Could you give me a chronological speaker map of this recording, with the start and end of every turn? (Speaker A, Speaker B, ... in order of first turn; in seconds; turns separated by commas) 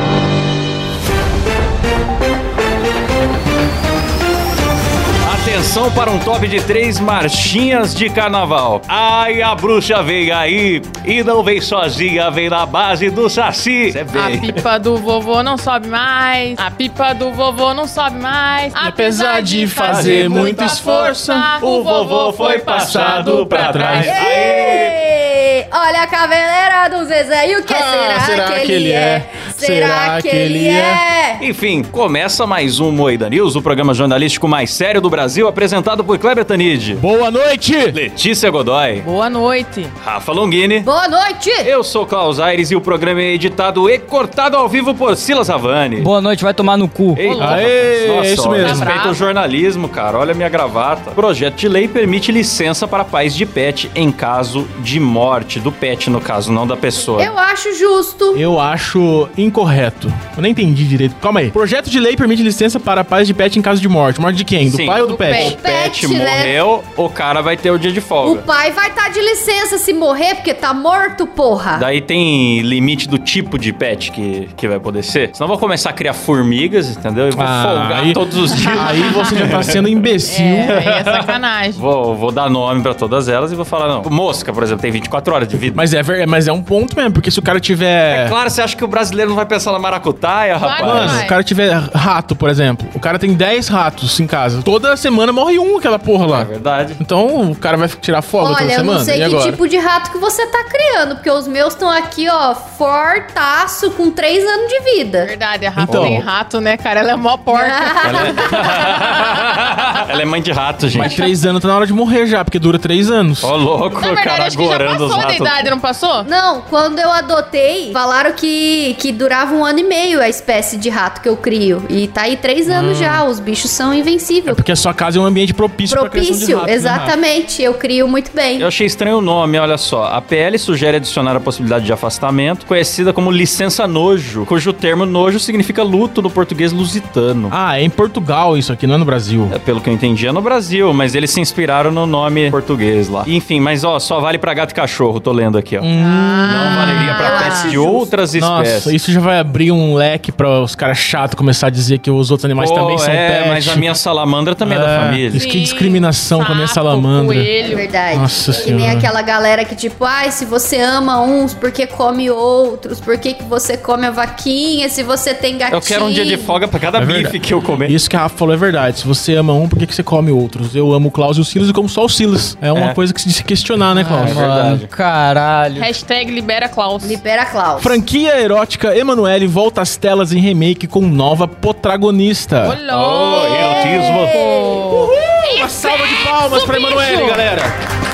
Speaker A: 5.2-14.6, Speaker B: 14.1-24.2, Speaker C: 18.8-21.5, Speaker A: 19.9-25.0, Speaker C: 22.6-24.2, Speaker D: 24.0-31.4, Speaker C: 27.7-31.0, Speaker A: 31.4-37.0, Speaker C: 37.0-38.0, Speaker A: 37.9-39.1, Speaker B: 39.0-39.9, Speaker A: 40.0-40.9, Speaker D: 40.8-41.7, Speaker A: 41.6-46.1, Speaker E: 46.0-47.2, Speaker A: 47.1-57.3, Speaker B: 47.2-47.7, Speaker C: 47.4-48.9, Speaker B: 48.6-49.3, Speaker D: 57.2-58.4, Speaker C: 58.3-65.5, Speaker A: 64.6-68.5, Speaker B: 65.0-65.6, Speaker D: 65.4-66.6, Speaker D: 68.2-71.9, Speaker A: 71.7-79.8, Speaker C: 77.3-80.7, Speaker B: 79.0-79.3, Speaker B: 80.2-81.8, Speaker A: 80.7-85.8, Speaker C: 85.7-88.3, Speaker A: 88.1-91.3, Speaker B: 90.6-91.4, Speaker C: 90.8-99.6, Speaker A: 96.3-97.0, Speaker D: 98.4-105.3, Speaker B: 105.2-109.1, Speaker C: 105.8-106.3, Speaker A: 105.9-106.2, Speaker D: 107.5-108.8, Speaker A: 108.0-111.2, Speaker C: 110.9-113.5, Speaker B: 111.0-111.3, Speaker A: 113.4-115.7, Speaker B: 113.9-116.3, Speaker D: 116.2-124.6, Speaker C: 122.7-123.2, Speaker C: 124.5-127.2, Speaker D: 125.9-128.7, Speaker A: 128.6-137.5, Speaker C: 137.5-139.6, Speaker A: 139.5-145.9, Speaker C: 145.8-147.4, Speaker B: 146.0-147.9, Speaker A: 146.5-148.9, Speaker D: 147.1-148.1, Speaker C: 148.3-153.9, Speaker A: 152.6-155.4, Speaker C: 154.6-157.5, Speaker B: 155.3-157.9, Speaker D: 157.6-166.6, Speaker C: 158.1-159.1, Speaker A: 165.7-168.0, Speaker C: 166.9-174.4, Speaker E: 173.9-176.0, Speaker A: 174.1-174.9, Speaker B: 175.8-177.2, Speaker D: 177.0-178.0, Speaker C: 177.8-182.8, Speaker B: 182.6-187.5, Speaker A: 182.9-184.4, Speaker D: 183.3-184.8, Speaker C: 184.9-187.8